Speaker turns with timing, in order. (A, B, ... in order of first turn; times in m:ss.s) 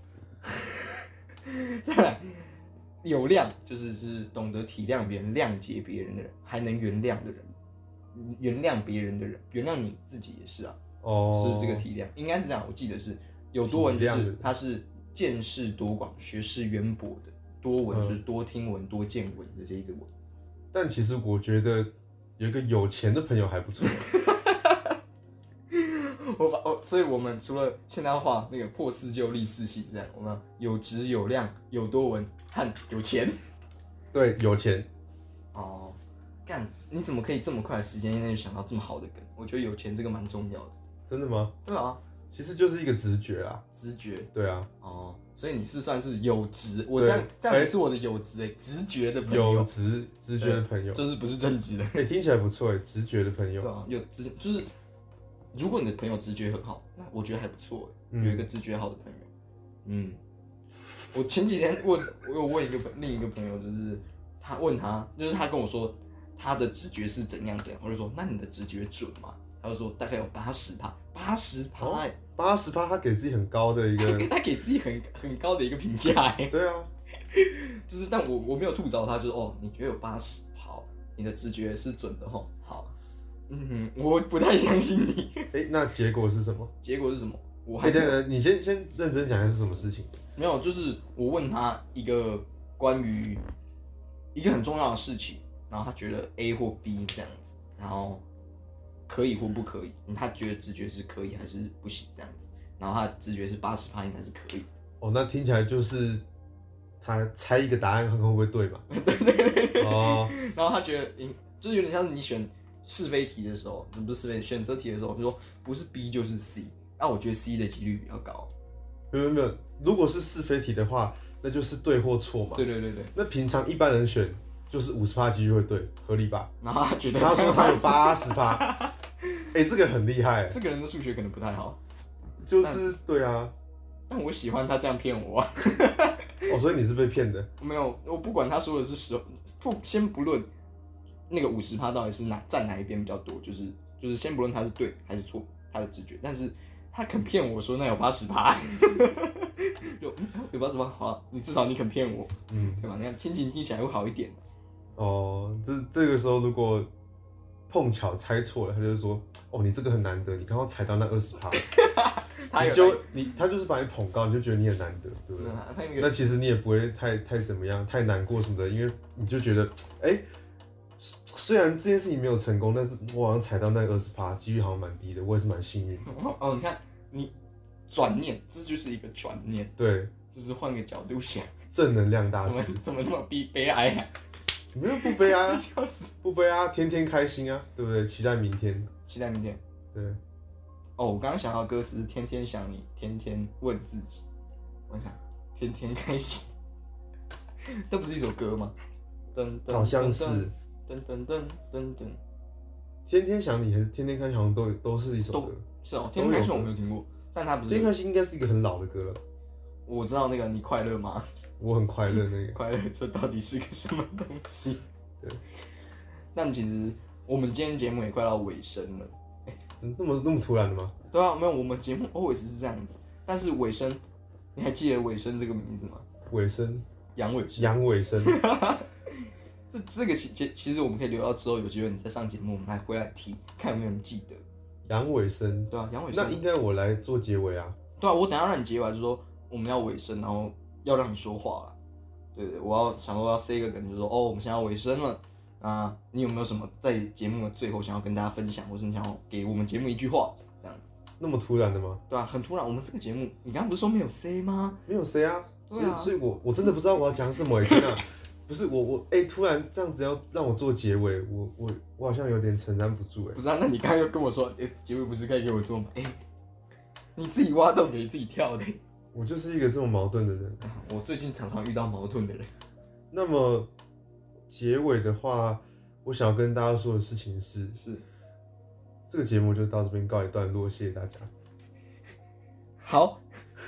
0:00.4-0:07.5 A
0:08.1-0:10.8 A
0:11.0-0:11.8 B
0:11.3-0:20.1 A
0:13.6-0:14.5 B
0:17.9-0:18.2 B
0:20.7-0:24.2 B
0:23.8-0:25.0 A
0:25.7-0:33.4 A
0:34.1-0:34.9 B
0:35.5-0:40.7 A
0:41.1-0:41.5 B
0:41.6-0:42.0 A
0:42.3-0:43.6 B
0:43.7-0:44.3 A
0:44.3-0:44.7 B
0:44.8-0:49.7 A
0:46.9-0:47.7 B
0:49.2-0:51.0 B
0:50.4-0:52.1 A
0:51.9-0:53.7 B
0:53.6-0:54.7 A
0:55.5-0:59.3 A
0:58.1-0:58.4 B
0:59.8-1:00.2 A
1:01.1-1:12.2 A
1:11.8-1:14.3 B
1:14.0-1:16.5 A
1:16.5-1:16.9 B
1:17.3-1:22.9 A
1:23.5-1:25.5 A
1:25.5-1:26.7 B
1:26.8-1:28.2 A
1:27.8-1:30.1 B
1:30.4-1:33.4 A
1:34.3-1:38.2 A
1:39.1-1:44.7 A
1:45.0-1:46.2 B
1:47.0-1:48.8 B
1:48.9-1:58.5 A
1:49.8-1:50.3 B
1:59.1-2:06.5 B
2:02.6-2:03.1 A
2:06.6-2:09.4 A
2:07.1-2:08.7 B
2:09.5-2:10.6 B
2:10.5-2:11.8 A
2:12.4-2:13.5 B
2:12.6-2:12.9 A
2:14.1-2:16.5 A
2:16.5-2:17.5 B
2:17.6-2:20.5 A
2:21.3-2:34.4 A
2:32.5-2:32.8 B
2:35.0-2:36.9 B
2:37.7-2:41.6 B
2:41.6-2:43.0 A
2:42.5-2:50.2 B
2:45.4-2:46.2 A
2:51.0-2:56.1 B
2:56.0-2:57.3 A
2:57.9-2:59.7 A
2:59.8-3:00.1 B
3:00.3-3:01.5 A
3:01.7-3:02.8 B
3:02.4-3:04.1 A
3:04.7-3:05.6 B
3:04.9-3:06.1 A
3:06.2-3:08.9 B
3:09.1-3:09.6 A
3:09.9-3:10.2 B
3:11.0-3:14.2 A
3:14.9-3:16.5 A
3:17.6-3:18.8 A
3:19.3-3:22.2 A
3:19.7-3:20.5 B
3:23.0-3:26.7 B
3:25.3-3:27.9 A
3:27.7-3:29.2 B
3:29.9-3:31.3 A
3:31.6-3:32.6 B
3:32.5-3:34.8 A
3:36.3-3:39.6 A
3:39.8-3:40.9 B
3:41.1-3:44.0 A
3:44.5-3:46.0 A
3:46.3-3:46.8 B
3:47.2-3:54.4 A
3:47.6-3:48.4 B
3:54.9-3:57.8 B
3:55.7-3:56.4 A
3:58.0-4:01.7 A
4:02.3-4:10.9 A
4:11.2-4:12.0 B
4:12.1-4:14.8 A
4:14.9-4:23.4 B
4:15.7-4:16.1 A
4:23.3-4:26.2 A
4:27.2-4:28.8 A
4:29.1-4:30.6 B
4:30.6-4:32.5 A
4:33.1-4:33.7 B
4:34.5-4:37.8 B
4:37.7-4:38.0 A
4:39.1-4:41.3 B
4:42.8-4:43.2 A